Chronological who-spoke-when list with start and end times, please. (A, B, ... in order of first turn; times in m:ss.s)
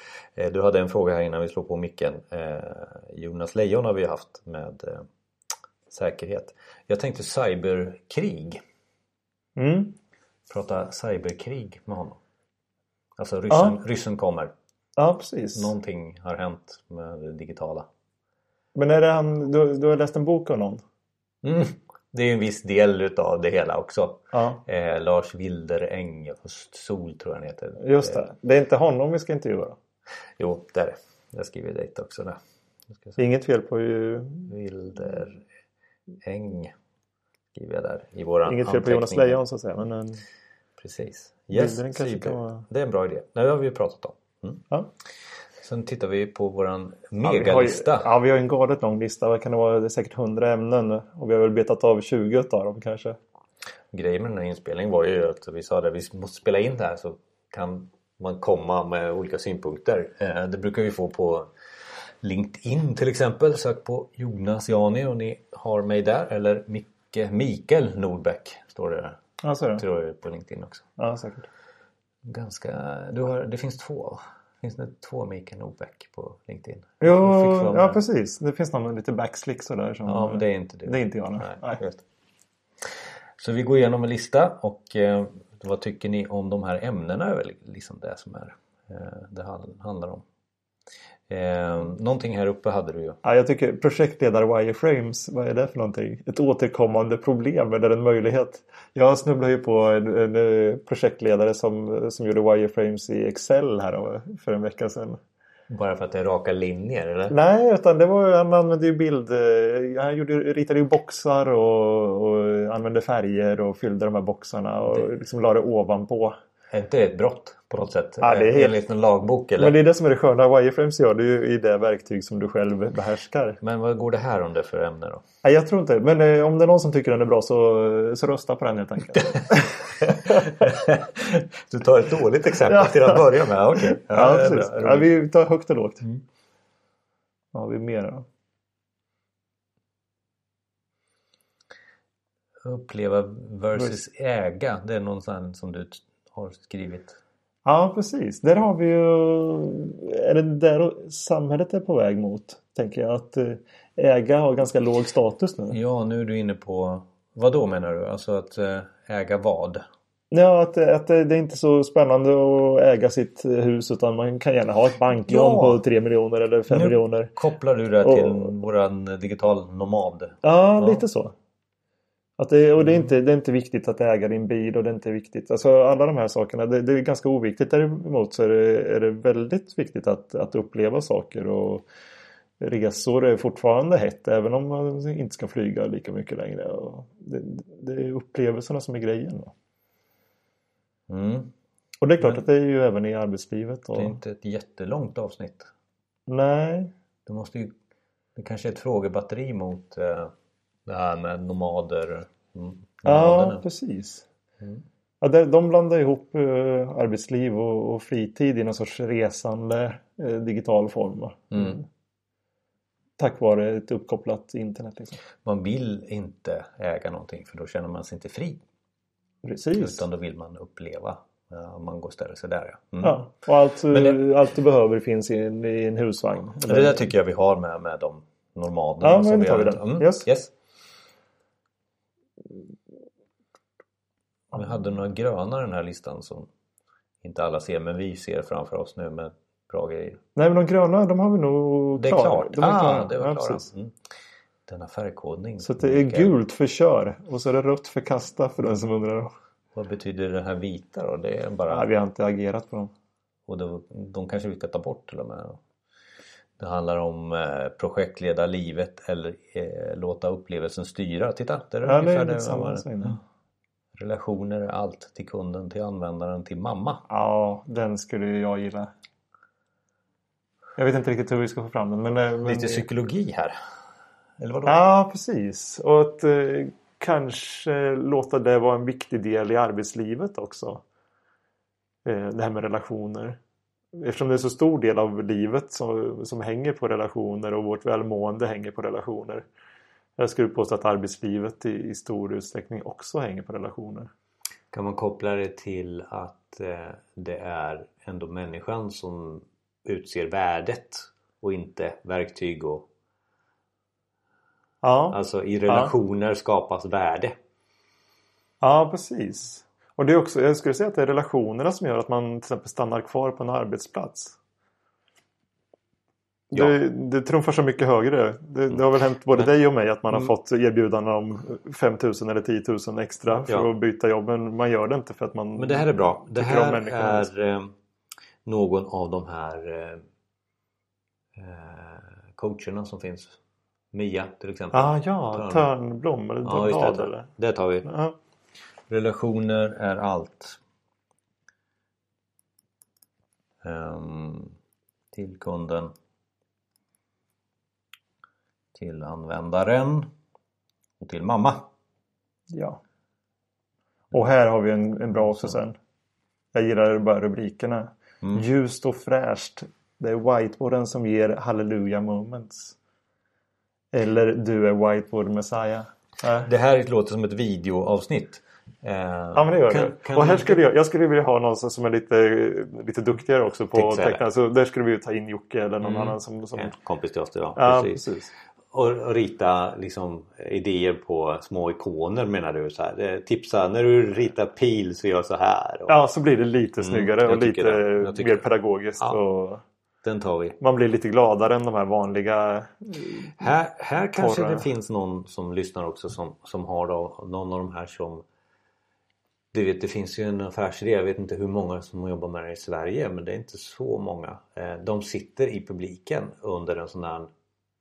0:00.4-0:05.1 A
0:05.9-0:08.6 A
0:09.6-0:10.0 B
0:10.5-0:12.2 A
0:13.2-0:14.5 A
0:13.5-0:13.8 B
0:15.0-0:15.7 B
0:15.5-0:17.9 A
0:18.7-0:20.8 B
0:21.4-0:28.3 A
0:24.3-0:24.6 B
0:27.8-0:29.8 B
0:30.4-0:32.4 A
0:33.2-0:34.5 B
0:34.5-0:35.4 A
0:36.2-0:36.7 A
0:37.5-0:39.4 A
0:38.4-0:40.2 B
0:40.8-0:44.7 A
0:41.5-0:42.6 B
0:45.6-0:48.1 A
0:47.2-0:53.2 B
0:53.9-1:01.5 A
1:02.2-1:09.2 A
1:09.4-1:09.8 B
1:09.8-1:10.8 A
1:11.0-1:11.5 B
1:12.2-1:18.0 A
1:17.0-1:21.8 B
1:20.1-1:22.0 A
1:23.4-1:30.2 A
1:31.3-1:33.2 A
1:33.2-1:45.2 B
1:45.7-1:47.3 A
1:47.3-1:56.3 B
1:56.7-1:59.8 A
1:58.2-1:58.8 B
1:59.6-2:03.6 B
2:03.6-2:05.2 A
2:05.4-2:10.7 B
2:09.2-2:15.1 A
2:12.6-2:16.0 B
2:17.5-2:18.2 B
2:22.6-2:27.2 A
2:27.6-2:35.8 B
2:35.7-2:39.8 A
2:40.3-2:47.3 B
2:45.2-2:45.8 A
2:46.7-2:51.0 A
2:48.0-2:48.5 B
2:50.4-2:51.3 B
2:52.4-3:01.8 B
3:02.6-3:09.5 B
3:11.1-3:11.5 A
3:12.0-3:14.2 B
3:13.9-3:15.7 A
3:16.3-3:16.9 B
3:17.2-3:17.7 A
3:18.4-3:20.3 A
3:20.9-3:23.6 A
3:23.0-3:24.2 B
3:25.2-3:31.8 B
3:31.5-3:31.8 A
3:33.2-3:35.2 B
3:35.4-3:38.6 A
3:39.4-3:40.0 B
3:39.8-3:43.2 A
3:43.0-3:47.0 B
3:43.9-3:44.2 A
3:46.6-3:50.5 A
3:49.0-3:50.3 B
3:54.5-3:56.5 A
3:57.2-4:00.2 A
4:00.4-4:03.7 B
4:01.9-4:04.0 A
4:04.7-4:06.3 A
4:05.6-4:09.3 B
4:09.7-4:11.9 A
4:11.7-4:12.9 B
4:13.5-4:15.6 A
4:16.6-4:23.2 A
4:21.8-4:23.2 B
4:24.0-4:27.0 A
4:27.1-4:28.9 B
4:30.8-4:32.8 B
4:32.4-4:33.6 A
4:34.4-4:34.8 A
4:34.7-4:40.8 B
4:42.0-4:43.4 B
4:43.9-4:49.4 B
4:50.2-4:54.1 B
4:54.7-5:02.9 A
5:04.8-5:05.9 B
5:05.1-5:07.4 A
5:08.6-5:14.4 B
5:16.5-5:27.3 B
5:25.6-5:27.7 A
5:28.5-5:30.0 A
5:31.4-5:33.4 A
5:33.9-5:35.7 A
5:34.7-5:37.3 B
5:36.4-5:37.9 A
5:37.8-5:38.2 B
5:38.9-5:40.6 A
5:43.6-5:44.6 A
5:45.1-5:45.9 A
5:48.8-5:50.1 A
5:51.0-5:51.7 A
5:52.5-5:52.8 B
5:54.1-5:55.8 B
5:56.5-6:02.8 B
6:03.9-6:06.5 B
6:06.4-6:10.6 A
6:09.3-6:16.7 B
6:13.7-6:14.2 A
6:15.8-6:18.0 A
6:17.6-6:18.3 B
6:18.7-6:26.0 A
6:25.9-6:29.6 B
6:26.8-6:28.5 A
6:30.0-6:30.6 A
6:30.6-6:33.4 B
6:33.4-6:38.2 A
6:34.2-6:34.7 B
6:39.5-6:47.3 A